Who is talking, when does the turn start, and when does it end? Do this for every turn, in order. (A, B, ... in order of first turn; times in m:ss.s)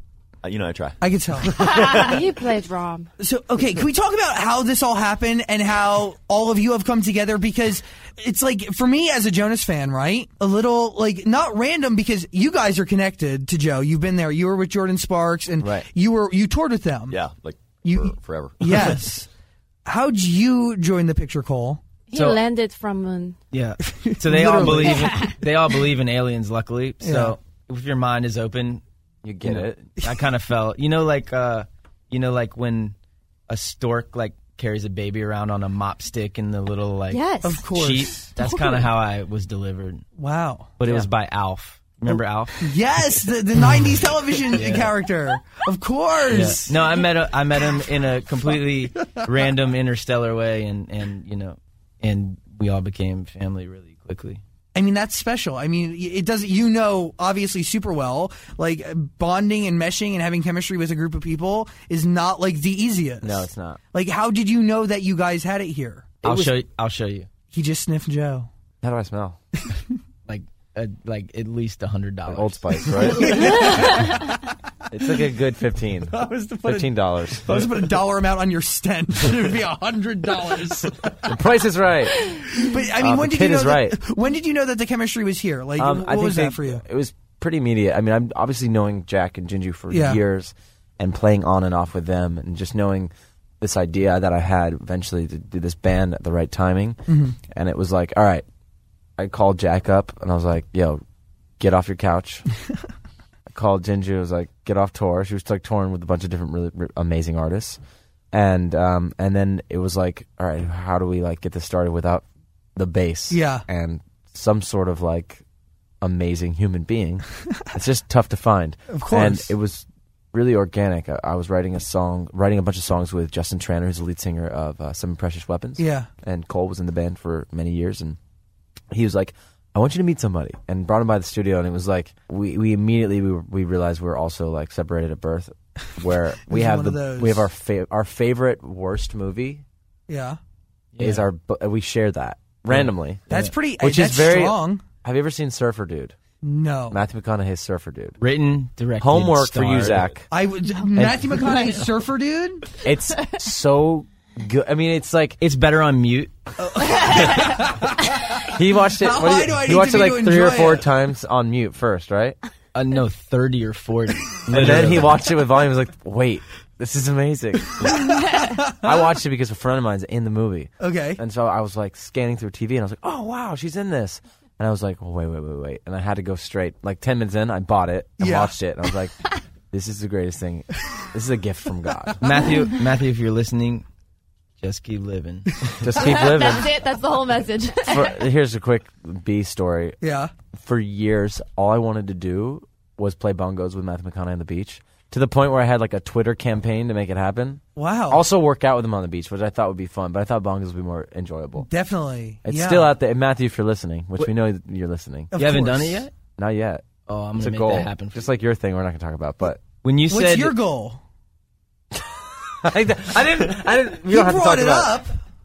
0:00.4-0:02.1 A
0:01.0-0:02.1 B
0:01.6-0:03.1 C
0:03.2-0:17.2 B
0:15.6-0:15.9 D
0:17.1-0:19.1 A
0:17.8-0:19.3 B
0:19.8-0:21.8 B
0:22.1-0:23.4 C
0:22.1-0:22.4 E
0:23.5-0:28.8 E
0:23.9-0:25.1 B
0:27.0-0:27.4 B
0:29.2-0:29.9 D
0:29.4-0:32.9 E
0:33.5-0:40.0 E
0:37.1-0:37.7 F
0:37.4-0:38.9 B
0:40.2-0:40.7 B
0:40.8-0:42.7 E
0:40.8-0:41.1 D
0:42.1-0:47.0 B
0:43.7-0:45.0 E
0:46.3-0:54.4 E
0:54.7-1:06.1 B
1:03.2-1:03.8 D
1:06.2-1:06.6 D
1:06.2-1:07.3 E
1:07.5-1:08.5 B
1:08.8-1:09.4 D
1:10.3-1:14.0 E
1:12.3-1:13.6 D
1:13.0-1:14.2 B
1:14.9-1:17.6 D
1:16.1-1:21.3 B
1:21.2-1:22.4 D
1:22.2-1:26.8 B
1:23.0-1:24.0 D
1:25.8-1:37.0 D
1:29.9-1:30.2 B
1:37.1-1:37.4 B
1:37.5-1:38.4 D
1:39.2-1:41.0 D
1:41.6-1:42.5 D
1:43.5-1:47.8 D
1:48.3-1:52.2 D
1:52.8-1:55.4 D
1:53.3-1:53.6 B
1:56.0-2:08.2 D
1:58.9-1:59.5 B
2:05.8-2:06.1 B
2:08.9-2:19.6 D
2:16.4-2:17.5 B
2:20.1-2:20.4 B
2:21.0-2:21.2 E
2:21.0-2:23.2 D
2:22.7-2:23.5 E
2:23.3-2:24.8 B
2:23.8-2:26.2 D
2:26.4-2:27.0 B
2:26.9-2:28.2 D
2:28.2-2:30.1 E
2:29.0-2:30.3 D
2:30.3-2:32.7 B
2:30.9-2:31.4 D
2:32.8-2:35.4 D
2:35.4-2:36.3 E
2:36.6-2:38.4 B
2:38.4-2:42.4 D
2:39.0-2:40.8 B
2:42.7-2:45.2 E
2:44.5-2:48.0 D
2:47.8-2:48.9 B
2:48.8-2:59.2 D
2:50.8-2:51.2 B
2:58.2-2:58.5 B
2:59.7-3:02.2 D
3:02.2-3:03.8 E
3:04.6-3:05.6 E
3:05.8-3:06.7 D
3:05.9-3:08.1 F
3:07.8-3:10.0 D
3:10.0-3:10.3 B
3:10.5-3:21.7 D
3:17.8-3:18.2 B
3:21.6-3:22.9 B
3:22.4-3:25.3 D
3:25.3-3:26.0 B
3:25.3-3:26.1 E
3:26.4-3:26.8 D
3:27.1-3:28.3 E
3:27.4-3:29.6 D
3:29.8-3:30.5 E
3:30.1-3:31.0 B
3:32.6-3:35.0 D
3:34.0-3:35.1 B